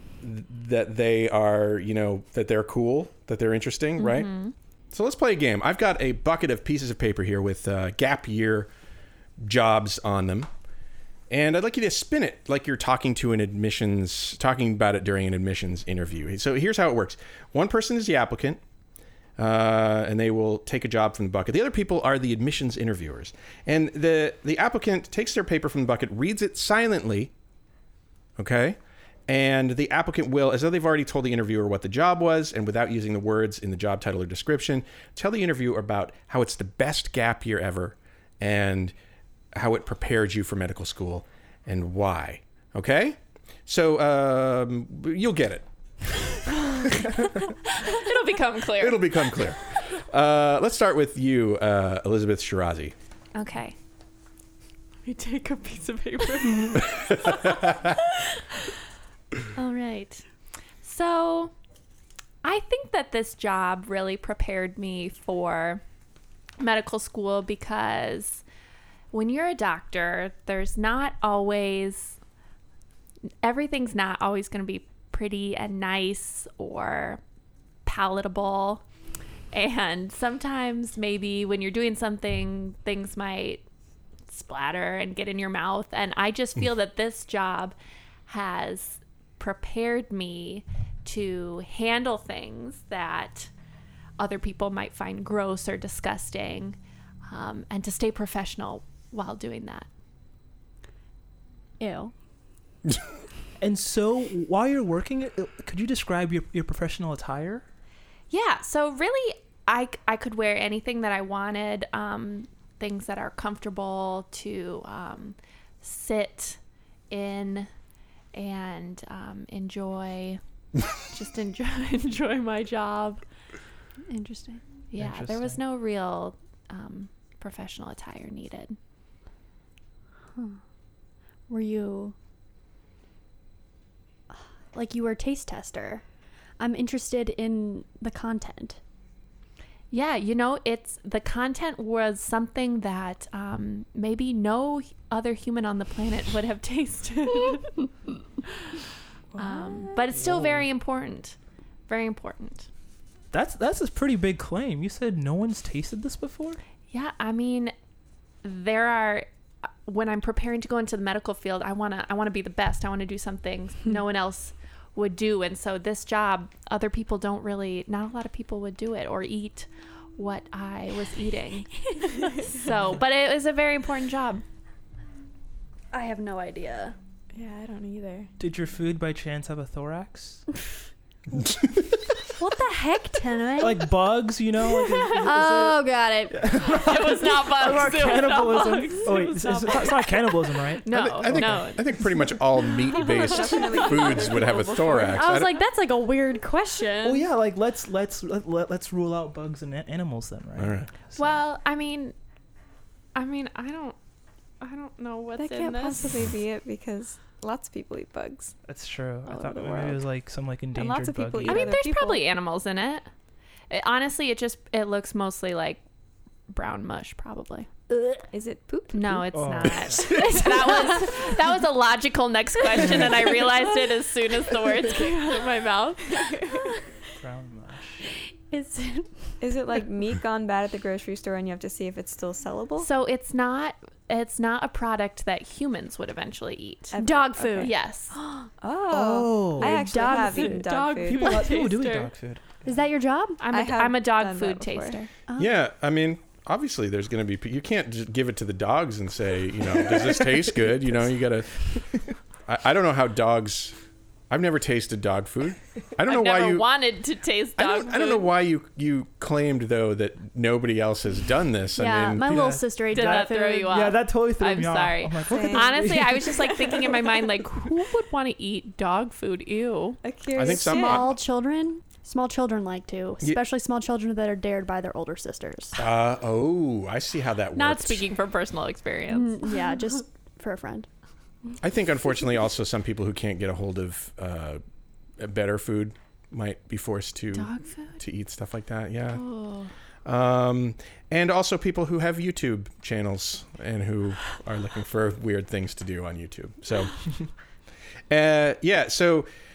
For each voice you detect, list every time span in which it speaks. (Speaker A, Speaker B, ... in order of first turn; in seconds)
Speaker A: 0.2-4.3, 4.9-8.7, 9.4-10.5, 11.3-18.6, 19.4-27.3, 28.4-38.9, 39.5-45.6, 48.7-52.9, 190.9-195.6, 200.6-200.9, 245.3-253.7, 254.3-256.7, 257.6-262.5, 270.3-271.1, 275.8-278.1, 281.6-284.6, 285.2-289.2, 290.0-296.9, 298.1-299.3
Speaker B: 4.0-4.5, 47.7-49.5, 53.3-53.8, 55.0-58.5, 59.5-60.2, 60.8-61.5, 62.4-65.8, 66.6-68.4, 69.1-72.2, 73.4-77.2, 77.8-78.8, 79.5-83.6, 84.3-87.8, 88.3-93.5, 94.2-99.9, 108.3-116.6, 117.1-117.7, 118.3-120.4, 121.0-123.2, 124.9-128.8, 139.9-147.9, 149.4-151.4, 151.9-152.7, 156.9-157.7, 158.4-159.3, 159.8-174.4, 186.6-190.2, 190.8-192.2, 192.9-195.1, 201.2-202.2, 203.1-203.9, 204.6-206.1, 211.5-213.1, 213.7-215.8, 216.5-217.7, 218.9-226.2, 232.8-237.0, 237.6-238.1, 239.8-242.1, 243.4-245.1, 256.0-258.3, 262.9-270.0, 277.5-279.5, 287.3-288.0, 289.1-289.7
Speaker C: 101.8-102.1, 124.1-124.6, 131.5-132.1, 134.3-136.0, 136.6-138.8, 175.9-176.9, 182.4-183.8, 185.1-186.4, 195.1-197.2, 217.9-218.2, 228.5-229.1, 237.0-237.7, 239.6-240.7, 242.7-243.4, 245.3-245.6, 261.8-263.8, 270.5-275.8, 279.1-280.9
Speaker D: 103.6-107.6, 125.0-125.6, 150.1-150.7, 153.3-156.6, 178.4-180.4, 183.6-191.6, 197.0-201.4, 208.7-211.8, 219.3-220.9, 227.2-228.0, 238.9-239.8, 241.1-242.6, 262.2-266.7
Speaker E: 177.3-178.3, 193.0-195.2, 205.4-208.5, 209.3-210.0, 210.7-212.3, 218.3-219.7, 229.4-232.9, 236.9-241.6, 243.5-245.0, 265.3-265.8, 270.0-271.1